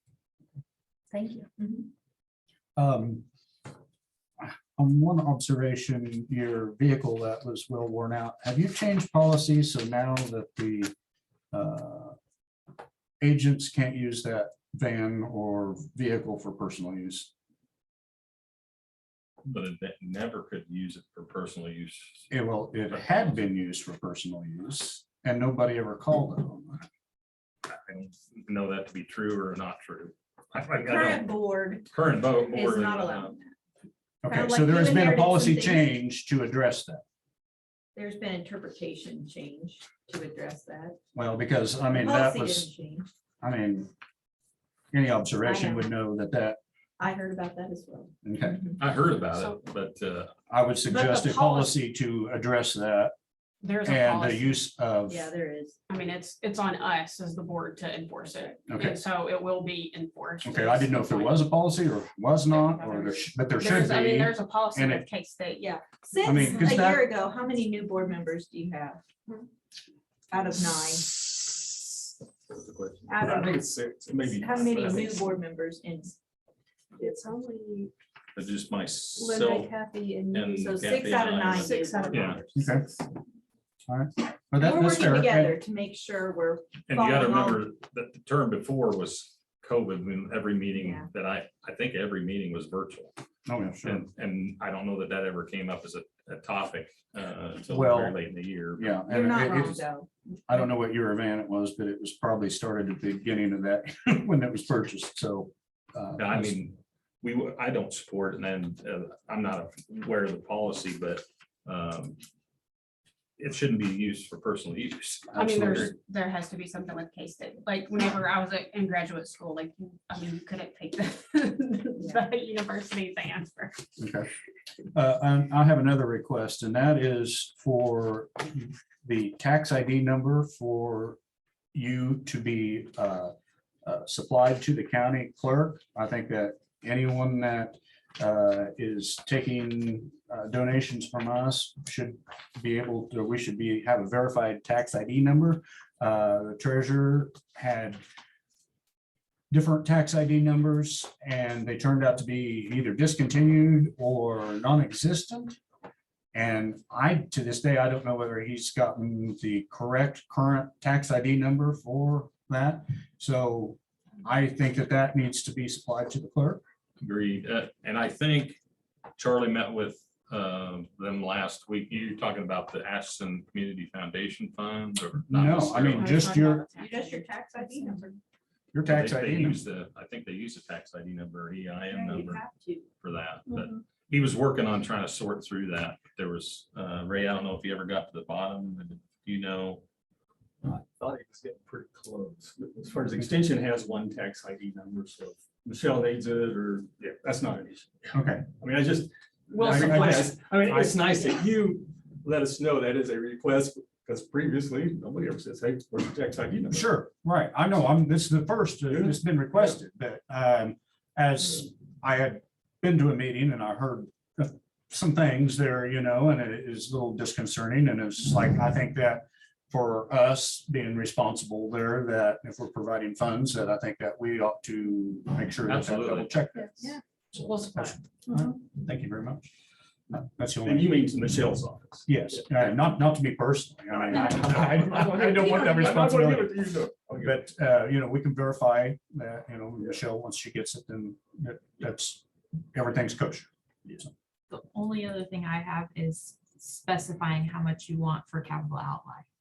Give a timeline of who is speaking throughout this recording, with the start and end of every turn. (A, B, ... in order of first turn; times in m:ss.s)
0:01.6-0:01.8 A
0:02.8-0:03.2 B
0:04.4-0:10.9 B
0:11.5-0:12.2 B
0:13.2-0:17.3 B
0:19.4-0:22.3 C
0:22.3-0:26.8 B
0:22.9-0:23.4 C
0:27.7-0:31.2 C
0:30.8-0:31.9 A
0:31.9-0:33.3 C
0:32.5-0:33.5 A
0:34.2-0:37.0 B
0:34.2-0:35.9 A
0:37.9-0:41.0 A
0:41.1-0:42.7 B
0:41.9-0:43.1 A
0:43.4-0:43.9 B
0:44.9-0:46.6 B
0:45.4-0:45.9 A
0:47.0-0:48.8 A
0:48.2-0:48.6 B
0:48.8-0:50.3 C
0:49.3-0:49.6 D
0:50.5-0:53.1 B
0:50.9-0:51.7 A
0:53.6-0:54.6 D
0:53.8-0:55.3 B
0:55.1-0:55.8 A
0:55.9-1:01.4 D
0:58.7-0:59.0 B
1:00.4-1:05.0 B
1:02.5-1:05.7 D
1:05.6-1:09.0 A
1:06.2-1:07.0 B
1:06.4-1:06.7 D
1:10.3-1:11.3 A
1:12.5-1:14.9 E
1:13.1-1:13.5 A
1:13.1-1:13.5 F
1:14.2-1:15.1 F
1:14.5-1:16.2 A
1:14.8-1:15.1 C
1:17.0-1:17.9 F
1:18.3-1:19.8 C
1:19.2-1:20.6 F
1:20.3-1:22.4 C
1:20.6-1:22.6 A
1:21.7-1:22.0 D
1:22.6-1:22.8 B
1:22.6-1:23.0 D
1:23.9-1:25.5 B
1:24.6-1:27.6 A
1:26.9-1:33.1 C
1:30.8-1:31.1 A
1:33.4-1:34.1 B
1:33.8-1:39.0 C
1:37.7-1:38.2 B
1:38.8-1:39.8 B
1:39.1-1:40.1 A
1:40.5-1:46.6 B
1:46.2-1:52.2 C
1:53.4-1:55.4 C
1:55.3-2:03.8 D
1:55.3-1:55.9 B
2:04.0-2:04.3 B
2:04.9-2:11.2 B
2:11.7-2:13.3 B
2:13.8-2:28.0 B
2:29.5-2:35.6 B
2:36.3-2:46.6 B
2:47.0-2:48.6 C
2:49.2-2:56.1 C
2:55.3-2:56.6 B
2:55.9-2:58.0 D
2:56.7-2:58.2 A
2:58.7-2:59.6 B
2:58.8-3:02.4 C
3:01.9-3:02.8 A
3:03.0-3:09.8 C
3:10.6-3:17.9 E
3:18.1-3:18.5 B
3:18.6-3:26.9 E
3:19.6-3:20.1 D
3:19.6-3:21.0 B
3:26.7-3:49.5 B
3:28.9-3:29.1 E
3:45.6-3:46.3 C
3:50.1-3:50.9 B
3:50.6-3:52.1 E
3:52.1-3:56.6 B
3:54.1-3:57.3 E
3:57.2-4:04.1 B
4:04.5-4:09.3 G